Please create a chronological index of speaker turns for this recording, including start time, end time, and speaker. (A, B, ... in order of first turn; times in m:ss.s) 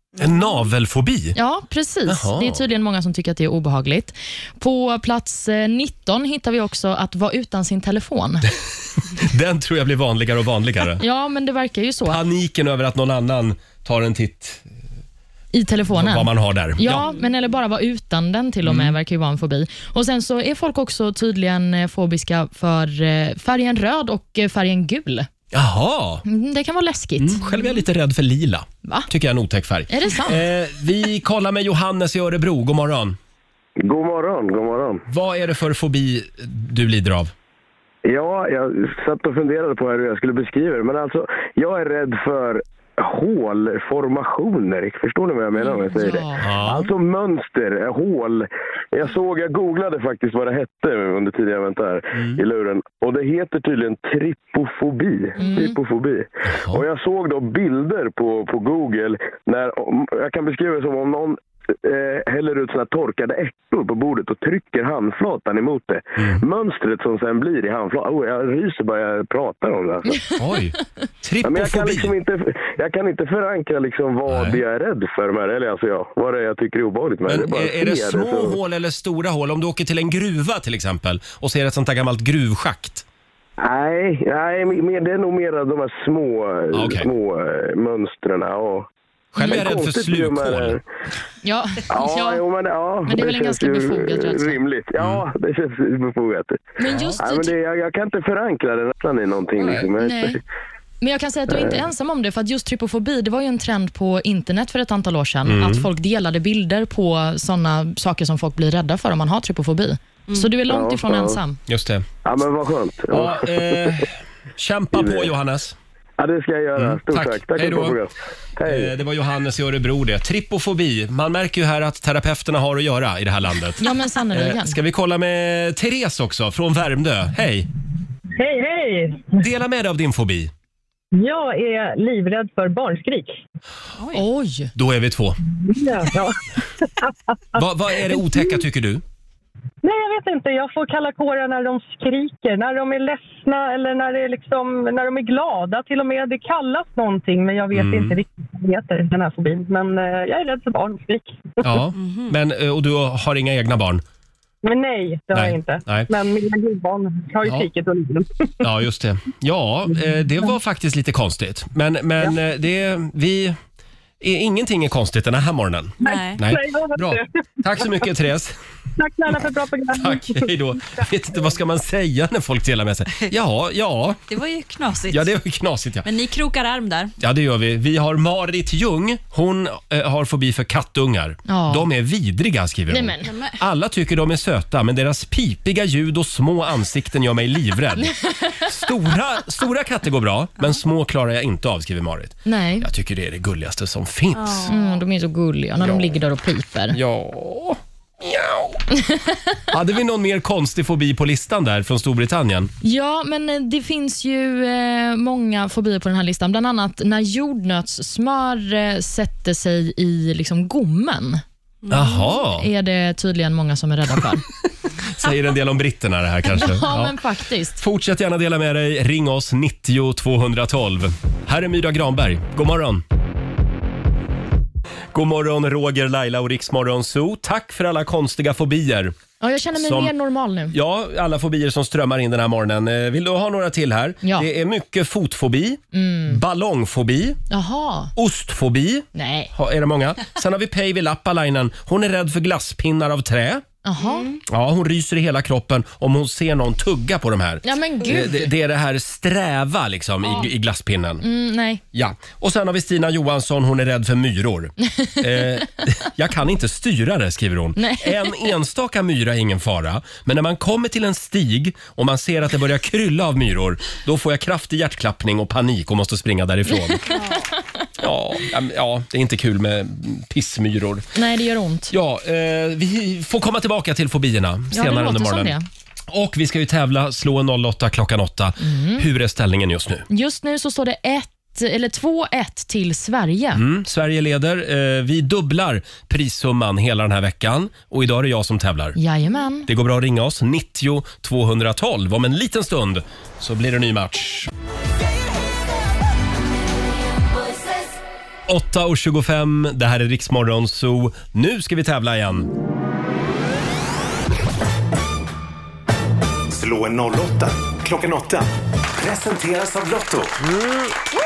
0:00.2-0:01.4 A
0:01.4-0:08.5 B
0:02.1-0:02.6 A
0:09.0-0:11.0 A
0:11.0-0:12.2 B
0:12.1-0:14.6 A
0:15.5-0:25.3 B
0:15.9-0:17.1 A
0:18.6-0:19.0 A
0:25.5-0:26.2 A
0:26.2-0:27.5 B
0:27.2-0:33.2 A
0:28.8-0:29.1 B
0:29.9-0:30.4 B
0:33.8-0:35.0 C
0:35.1-0:37.3 A
0:38.0-1:10.2 C
0:45.9-0:46.5 B
0:46.4-0:46.9 A
0:52.2-0:52.4 A
0:55.4-0:55.8 B
0:56.4-0:56.8 A
1:06.2-1:06.4 A
1:10.4-1:12.1 A
1:11.4-1:18.6 C
1:14.3-1:14.6 A
1:17.3-1:23.0 A
1:23.6-1:28.9 C
1:26.7-1:27.1 A
1:29.3-1:30.8 A
1:29.4-1:30.8 C
1:31.4-1:32.4 B
1:31.9-1:36.6 C
1:33.1-1:34.6 B
1:35.0-1:35.2 A
1:36.8-1:37.5 B
1:36.9-1:37.2 A
1:37.2-1:40.4 C
1:39.6-1:39.8 A
1:40.0-1:40.4 B
1:41.0-1:51.6 B
1:41.5-1:41.8 C
1:45.5-1:45.9 A
1:50.7-1:51.4 C
1:51.7-1:52.0 A
1:52.2-1:53.9 C
1:53.1-1:55.8 A
1:54.9-1:55.3 C
1:56.2-1:58.9 C
1:56.8-1:58.0 A
1:58.6-2:07.7 A
2:03.8-2:04.8 B
2:08.4-2:09.4 D
2:09.4-2:10.5 A
2:11.1-2:13.4 D
2:14.1-2:14.7 B
2:14.8-2:15.4 A
2:15.6-2:18.6 D
2:17.6-2:19.0 A
2:19.8-2:31.7 D
2:27.7-2:28.2 A
2:31.6-2:34.0 A
2:32.0-2:32.4 E
2:34.6-2:38.7 D
2:35.3-2:36.1 A
2:38.6-2:43.6 A
2:40.0-2:40.5 D
2:44.2-2:48.6 A
2:46.0-2:48.1 D
2:46.0-2:46.4 E
2:49.0-2:51.0 D
2:50.0-2:54.2 A
2:54.3-2:55.3 E
2:55.1-2:56.1 A
2:56.0-2:57.1 E
2:57.2-3:14.7 A
3:01.5-3:01.9 B
3:02.9-3:03.3 B
3:03.2-3:03.6 E
3:12.5-3:12.9 B
3:14.4-3:14.9 E
3:14.7-3:17.0 B
3:15.8-3:16.2 A
3:16.9-3:18.8 A
3:19.0-3:19.3 B
3:19.7-3:22.7 A
3:22.8-3:31.4 B
3:31.9-3:32.1 E
3:31.9-3:32.7 A
3:32.5-3:34.4 B
3:35.0-3:37.2 A
3:36.6-3:37.8 B
3:37.8-3:43.0 A
3:45.1-3:49.2 A
3:49.4-3:50.8 B
3:49.8-3:50.1 A
3:50.7-3:57.4 A
3:54.2-3:54.5 B
3:55.9-3:56.4 B
3:57.5-3:58.1 B
3:58.2-4:03.6 A
3:59.2-3:59.5 B
4:03.8-4:04.3 B
4:04.4-4:11.2 A
4:07.6-4:08.5 B
4:11.2-4:11.8 B
4:11.9-4:27.1 A
4:14.9-4:15.2 B
4:17.8-4:18.5 B
4:26.9-4:27.4 B
4:28.0-4:31.1 A
4:31.2-4:31.9 B
4:31.9-4:35.6 A
4:34.7-4:35.6 B
4:36.1-4:40.1 A
4:38.6-4:39.1 B
4:40.1-4:43.6 B
4:43.6-4:49.0 A
4:49.0-4:49.7 B
4:49.7-4:54.5 A
4:58.5-5:02.5 A
5:06.5-5:10.4 F
5:10.4-5:11.0 A